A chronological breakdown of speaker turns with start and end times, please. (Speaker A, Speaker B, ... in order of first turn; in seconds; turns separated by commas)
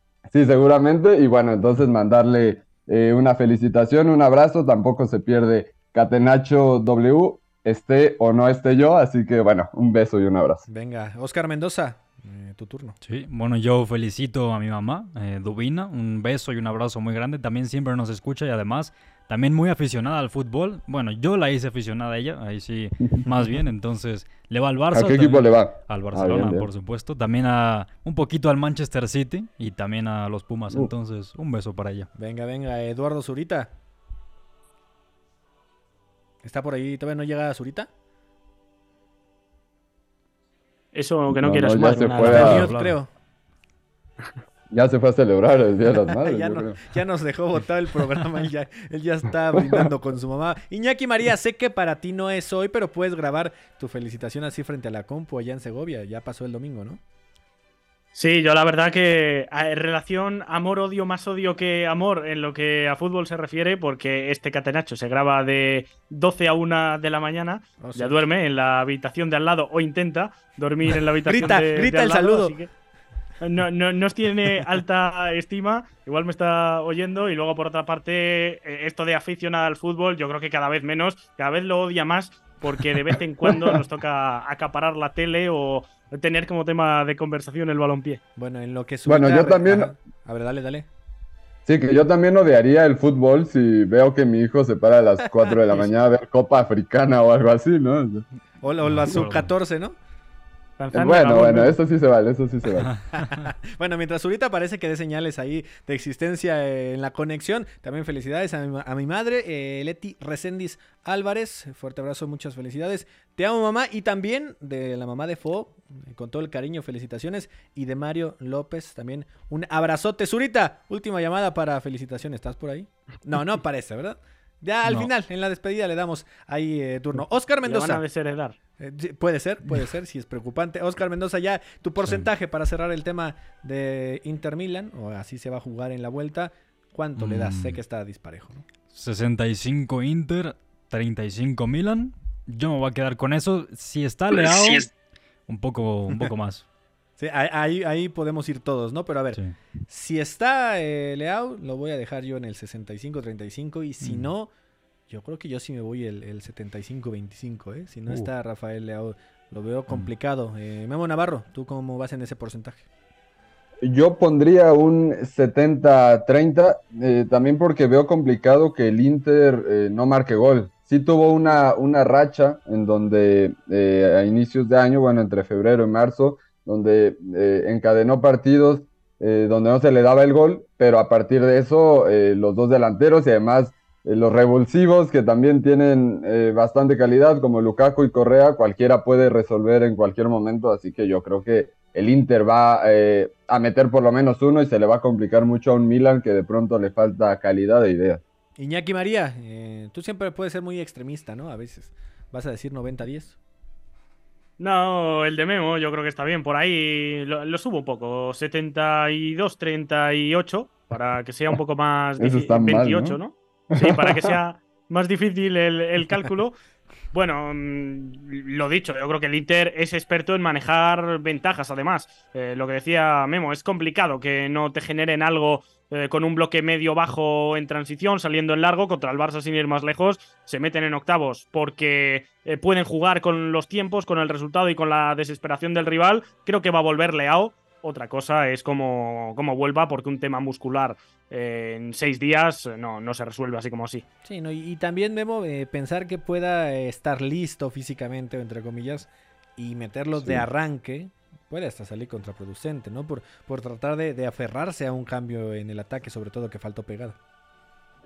Speaker A: 0.3-10.6, Speaker B: 10.7-13.0, Speaker C: 13.1-32.1, Speaker A: 24.9-26.7, Speaker B: 32.2-33.7, Speaker B: 36.4-37.9, Speaker D: 40.9-42.6, Speaker A: 41.3-42.7, Speaker C: 42.1-43.0, Speaker B: 42.2-43.1, Speaker A: 44.7-46.8, Speaker B: 46.2-57.0, Speaker D: 58.1-72.7, Speaker B: 67.8-68.2, Speaker B: 71.3-72.6, Speaker D: 73.4-88.2, Speaker B: 88.4-90.9, Speaker A: 89.1-89.9, Speaker A: 91.7-98.2, Speaker B: 98.6-100.0, Speaker C: 98.8-99.5, Speaker D: 100.8-101.7, Speaker A: 100.9-102.9, Speaker C: 102.9-103.5, Speaker B: 103.2-128.0, Speaker C: 124.8-125.1, Speaker D: 127.6-128.6, Speaker B: 128.8-138.6, Speaker C: 137.2-137.8, Speaker C: 138.9-144.9, Speaker C: 145.5-146.6, Speaker B: 147.2-154.5, Speaker C: 154.0-154.3, Speaker B: 155.1-162.8, Speaker A: 163.8-198.2, Speaker B: 198.6-203.4, Speaker D: 204.6-216.6, Speaker A: 212.2-213.2, Speaker A: 213.7-214.3, Speaker D: 217.1-244.0, Speaker B: 244.2-257.2, Speaker A: 250.2-250.4